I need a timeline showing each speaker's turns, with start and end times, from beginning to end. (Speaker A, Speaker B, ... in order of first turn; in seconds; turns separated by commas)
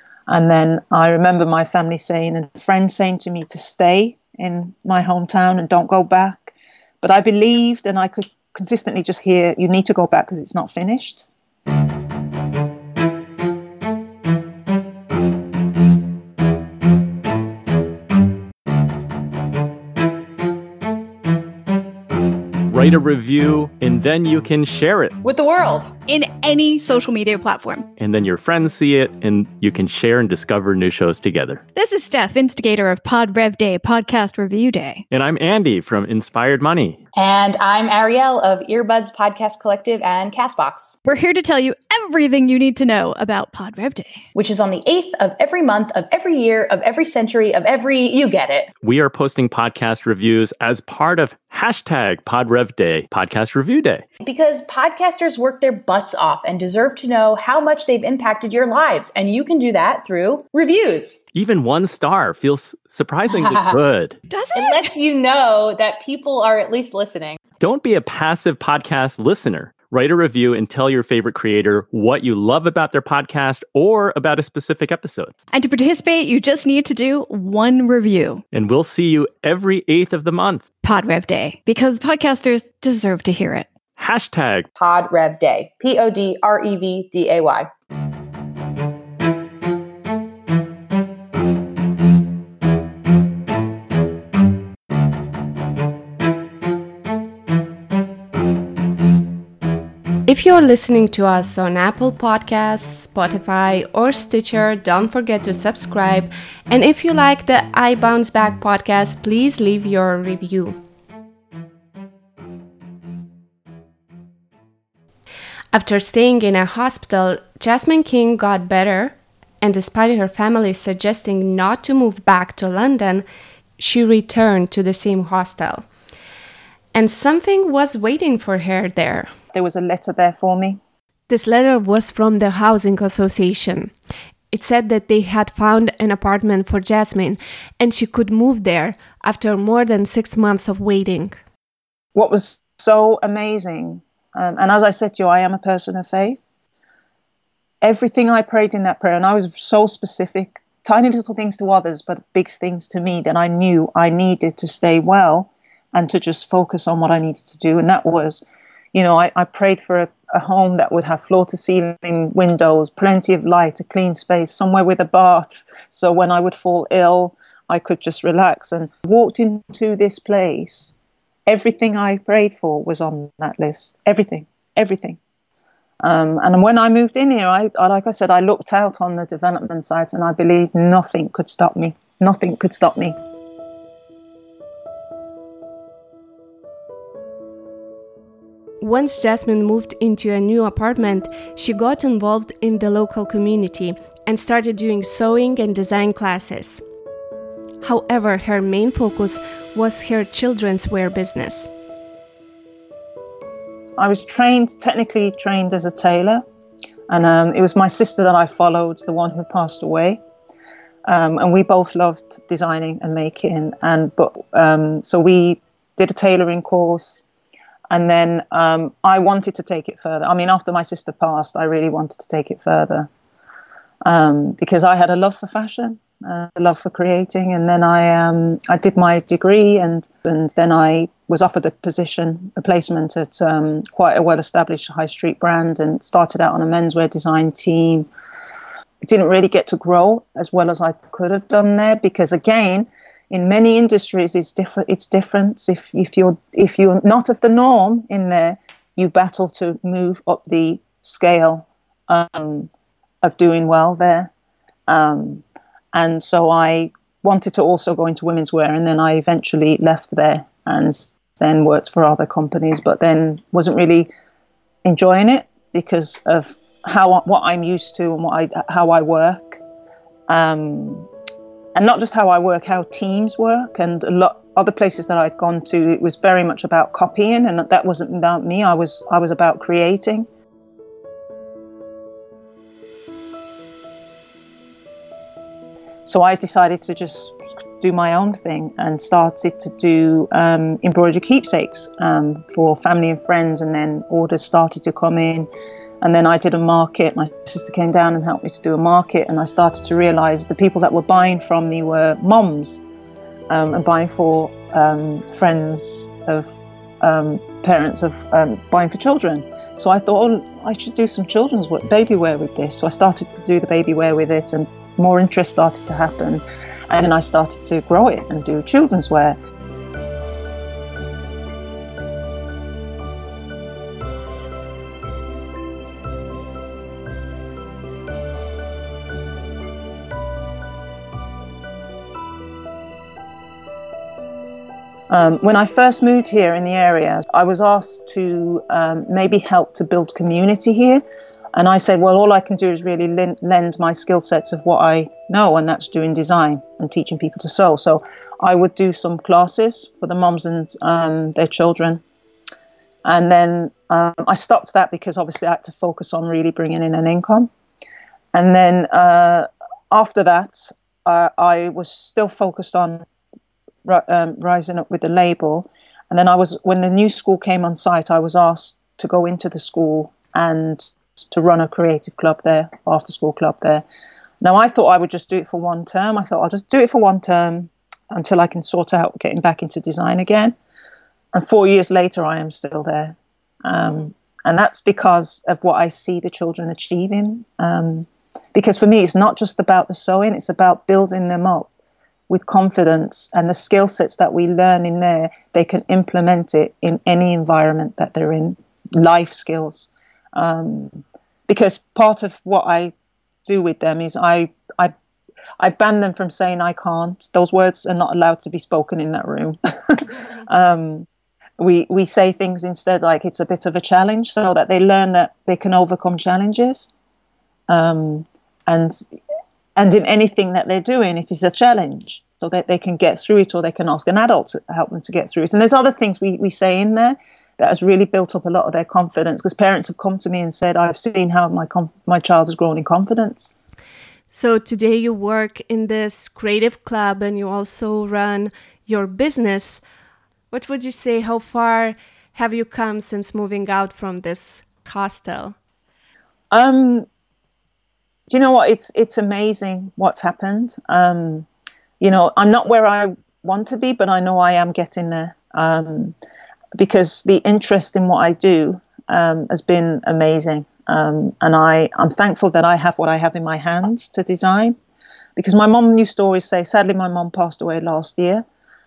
Speaker A: 0.3-11.2, Speaker B: 22.7-25.1, Speaker C: 25.2-25.9, Speaker D: 26.1-27.9, Speaker B: 28.0-31.6, Speaker D: 31.7-35.0, Speaker B: 35.1-37.0, Speaker C: 37.1-40.9, Speaker D: 41.0-44.2, Speaker C: 44.3-48.7, Speaker B: 48.8-54.0, Speaker C: 54.2-61.2, Speaker B: 61.3-64.2, Speaker C: 63.3-63.8, Speaker D: 64.3-64.9, Speaker C: 64.5-67.4, Speaker B: 67.6-75.3, Speaker D: 75.5-78.4, Speaker B: 78.5-80.7, Speaker D: 80.8-83.7, Speaker B: 84.0-84.7, Speaker C: 84.8-87.7, Speaker E: 100.2-110.8, Speaker E: 115.7-123.2, Speaker E: 123.8-125.8, Speaker E: 126.9-129.3, Speaker A: 129.5-130.8, Speaker E: 131.3-133.9, Speaker E: 134.5-141.3, Speaker A: 142.1-146.4, Speaker A: 147.8-170.9, Speaker A: 171.4-175.2, Speaker A: 176.0-183.2, Speaker E: 188.8-196.8, Speaker E: 197.8-201.7, Speaker A: 204.0-206.4, Speaker A: 207.1-210.2, Speaker A: 211.0-217.2, Speaker A: 217.9-223.1, Speaker A: 224.0-238.1, Speaker A: 239.0-252.7, Speaker A: 253.2-254.3, Speaker A: 254.9-264.1, Speaker A: 264.8-269.6, Speaker A: 270.3-271.1, Speaker A: 271.7-280.3, Speaker A: 286.1-295.5, Speaker A: 296.0-302.8, Speaker A: 303.5-319.4, Speaker A: 335.1-341.0, Speaker A: 341.5-352.0, Speaker A: 353.0-357.5, Speaker A: 358.3-363.0, Speaker A: 363.8-373.8, Speaker A: 374.4-380.5, Speaker A: 381.3-391.7, Speaker A: 392.3-402.9, Speaker A: 403.4-404.9, Speaker A: 405.6-411.1, Speaker A: 411.6-416.9, Speaker A: 417.7-419.1, Speaker A: 419.8-433.5, Speaker E: 434.3-439.8, Speaker E: 440.5-445.6, Speaker A: 446.5-447.1, Speaker A: 448.3-451.5, Speaker A: 452.0-456.1, Speaker A: 456.8-464.8, Speaker A: 465.4-468.4